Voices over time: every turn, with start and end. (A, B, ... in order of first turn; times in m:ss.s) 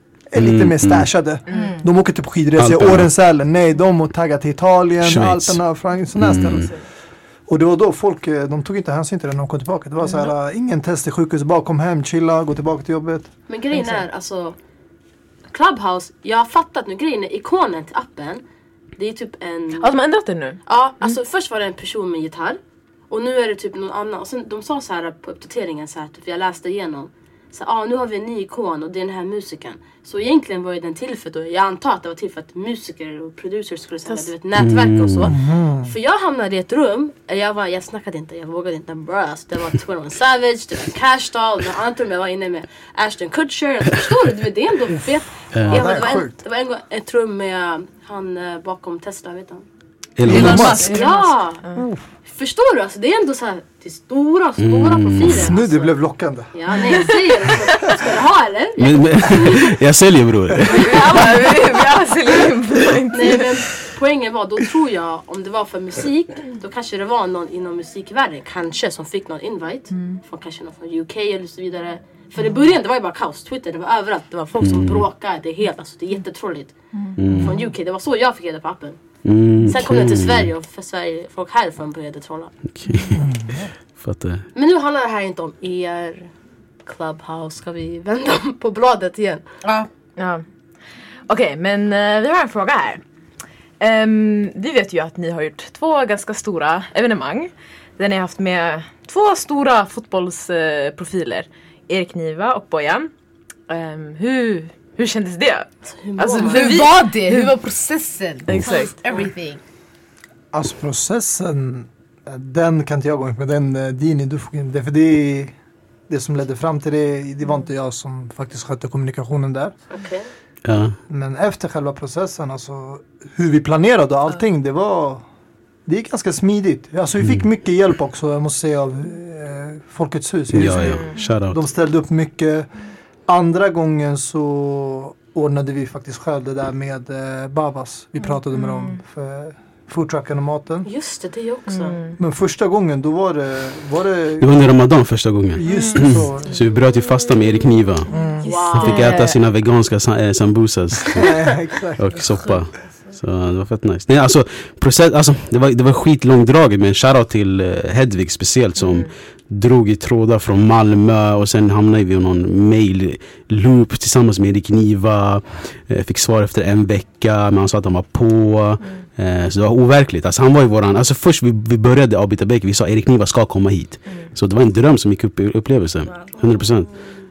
0:00.3-0:06.7 A
0:00.4-0:01.1 B
0:01.5-0:01.8 C
0:01.5-0:01.8 D
0:02.6-0:03.1 B
0:05.0-0:05.6 B
0:06.2-0:06.7 B
0:07.5-0:13.3 A
0:13.5-0:14.6 E
0:13.7-0:14.0 C
0:15.5-0:18.4 E
0:19.0-0:20.0 E
0:19.8-0:21.1 C
0:20.7-0:22.6 E
0:23.1-0:49.6 E
0:34.6-0:35.4 B
0:35.2-0:35.9 A
0:45.5-0:46.0 B
0:45.7-0:46.4 A
0:50.2-0:50.8 B
0:50.2-0:50.9 A
0:50.2-0:51.2 D
0:50.3-0:51.6 E
0:50.5-0:51.8 C
0:51.8-0:52.0 A
0:52.2-0:56.0 E
0:54.6-0:55.5 B
0:55.2-0:56.5 A
0:56.5-0:59.8 E
0:56.8-0:57.1 C
0:58.8-1:01.2 B
1:00.7-1:01.1 A
1:00.7-1:03.7 C
1:03.1-1:16.7 E
1:14.6-1:15.0 B
1:17.2-1:17.6 B
1:17.3-1:19.0 E
1:19.2-1:20.5 B
1:19.6-1:22.5 E
1:22.7-1:23.2 B
1:23.1-1:23.7 A
1:24.0-1:24.4 B
1:24.5-1:26.3 E
1:26.8-1:29.4 E
1:29.6-1:29.9 D
1:30.2-1:30.4 C
1:31.3-1:33.0 C
1:33.8-1:43.1 C
1:43.7-1:47.5 C
1:45.9-1:46.8 E
1:46.4-1:49.6 D
1:48.5-1:48.9 C
1:50.5-1:55.5 A
1:56.1-1:59.8 A
1:59.9-2:00.3 E
2:00.6-2:01.0 B
2:01.1-2:05.2 A
2:05.9-2:12.7 A
2:10.5-2:11.6 B
2:10.8-2:11.2 C
2:13.3-2:20.9 A
2:18.5-2:19.0 C
2:20.8-2:22.0 E
2:21.7-2:22.2 C
2:22.2-2:24.6 A
2:24.4-2:28.1 B
2:25.6-2:26.6 A
2:25.7-2:26.0 C
2:28.1-2:28.4 A
2:28.4-2:29.4 C
2:28.4-2:29.2 E
2:28.8-2:56.9 B
2:31.1-2:32.3 A
2:38.8-2:39.1 C